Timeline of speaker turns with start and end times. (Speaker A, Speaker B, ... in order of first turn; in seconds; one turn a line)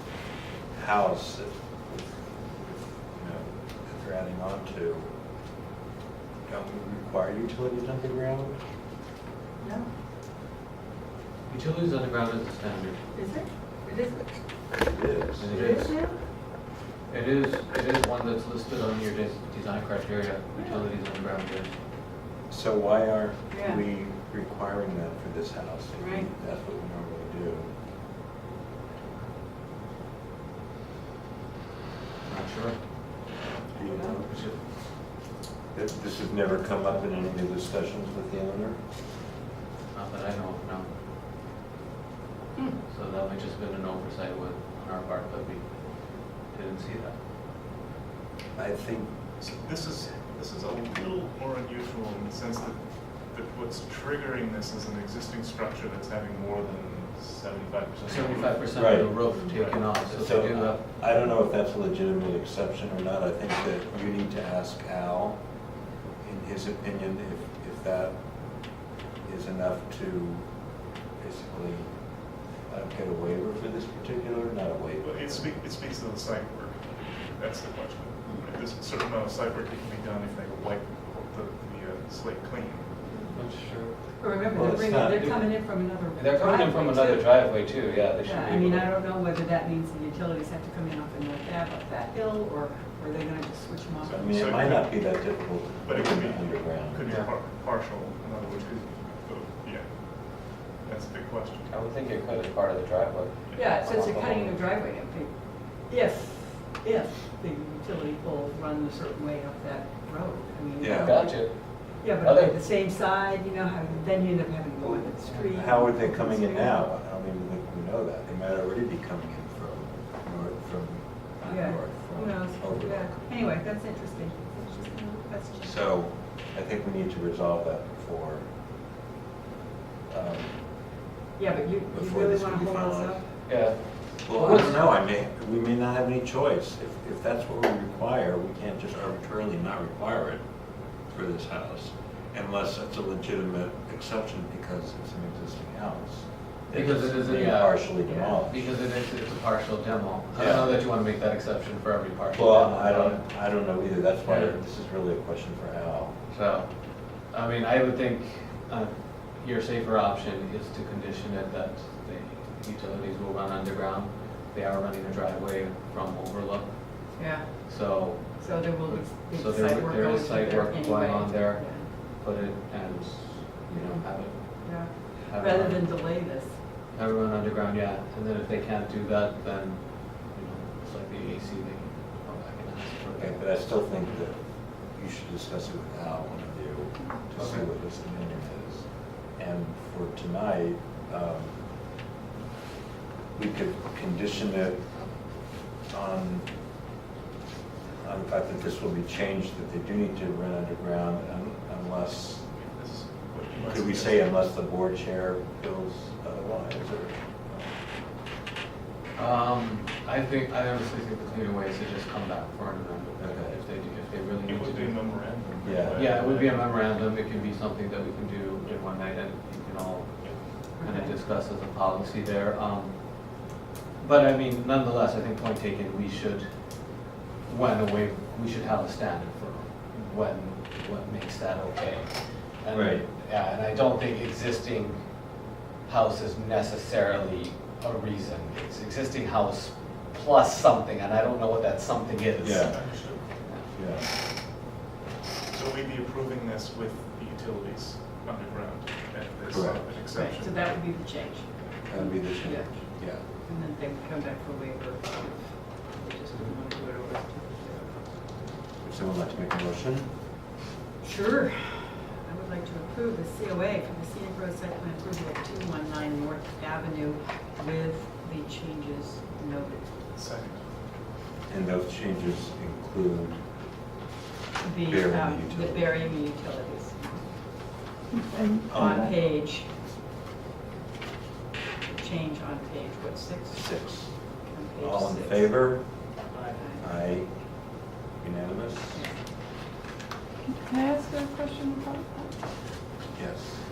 Speaker A: 0.7-5.1
Speaker A: 6.5-8.6
Speaker B: 9.6-9.9
Speaker C: 11.5-13.1
Speaker B: 13.1-14.4
Speaker A: 14.8-16.0
Speaker C: 15.4-16.0
Speaker B: 15.5-16.2
Speaker C: 17.1-21.7
Speaker A: 22.5-27.7
Speaker B: 23.5-23.8
Speaker B: 26.0-26.3
Speaker C: 32.2-33.2
Speaker A: 33.7-34.3
Speaker B: 33.8-34.2
Speaker C: 34.0-34.6
Speaker A: 35.7-38.8
Speaker C: 39.9-40.9
Speaker C: 42.9-47.2
Speaker A: 48.5-49.1
Speaker D: 49.4-59.8
Speaker C: 58.1-61.0
Speaker A: 58.8-59.1
Speaker A: 60.0-65.5
Speaker A: 66.2-70.5
Speaker A: 71.1-72.0
Speaker A: 72.6-75.5
Speaker D: 75.0-83.0
Speaker C: 83.3-84.0
Speaker B: 84.2-87.3
Speaker A: 84.5-85.3
Speaker C: 85.1-89.0
Speaker B: 88.2-94.3
Speaker D: 94.0-101.7
Speaker A: 94.1-97.1
Speaker C: 101.7-104.6
Speaker D: 103.5-103.8
Speaker B: 103.5-116.8
Speaker A: 110.8-111.3
Speaker C: 110.9-112.6
Speaker A: 114.8-123.2
Speaker C: 115.2-115.5
Speaker B: 121.4-125.8
Speaker A: 125.6-128.5
Speaker A: 130.1-130.9
Speaker B: 131.3-133.4
Speaker A: 131.9-140.4
Speaker C: 133.5-134.9
Speaker A: 141.0-148.7
Speaker C: 146.7-153.2
Speaker B: 148.1-148.3
Speaker A: 150.3-150.8
Speaker A: 152.3-156.2
Speaker C: 154.2-154.6
Speaker C: 156.3-176.0
Speaker B: 167.2-167.6
Speaker B: 168.4-171.9
Speaker B: 173.7-174.0
Speaker B: 174.6-176.6
Speaker C: 176.9-183.7
Speaker A: 183.2-191.6
Speaker C: 187.3-187.7
Speaker A: 193.3-195.0
Speaker A: 195.9-196.5
Speaker A: 198.0-202.5
Speaker D: 202.5-204.5
Speaker A: 203.6-207.7
Speaker C: 209.2-215.3
Speaker A: 213.2-213.6
Speaker D: 214.4-216.8
Speaker A: 215.6-216.0
Speaker C: 215.9-243.7
Speaker B: 220.8-221.1
Speaker A: 232.7-233.0
Speaker A: 242.4-244.1
Speaker D: 242.6-243.4
Speaker D: 245.5-251.8
Speaker A: 249.5-249.9
Speaker B: 250.2-258.4
Speaker A: 251.9-253.2
Speaker A: 258.8-260.1
Speaker B: 261.0-269.9
Speaker D: 270.1-270.7
Speaker A: 271.5-273.4
Speaker B: 274.6-277.2
Speaker A: 274.9-275.9
Speaker E: 278.1-279.1
Speaker A: 278.7-279.0
Speaker B: 278.8-279.7
Speaker B: 281.9-283.6
Speaker A: 283.5-284.2
Speaker B: 284.5-285.6
Speaker A: 284.8-285.9
Speaker B: 286.3-286.9
Speaker A: 286.8-287.3
Speaker A: 288.2-289.1
Speaker E: 290.4-292.3
Speaker A: 293.1-293.6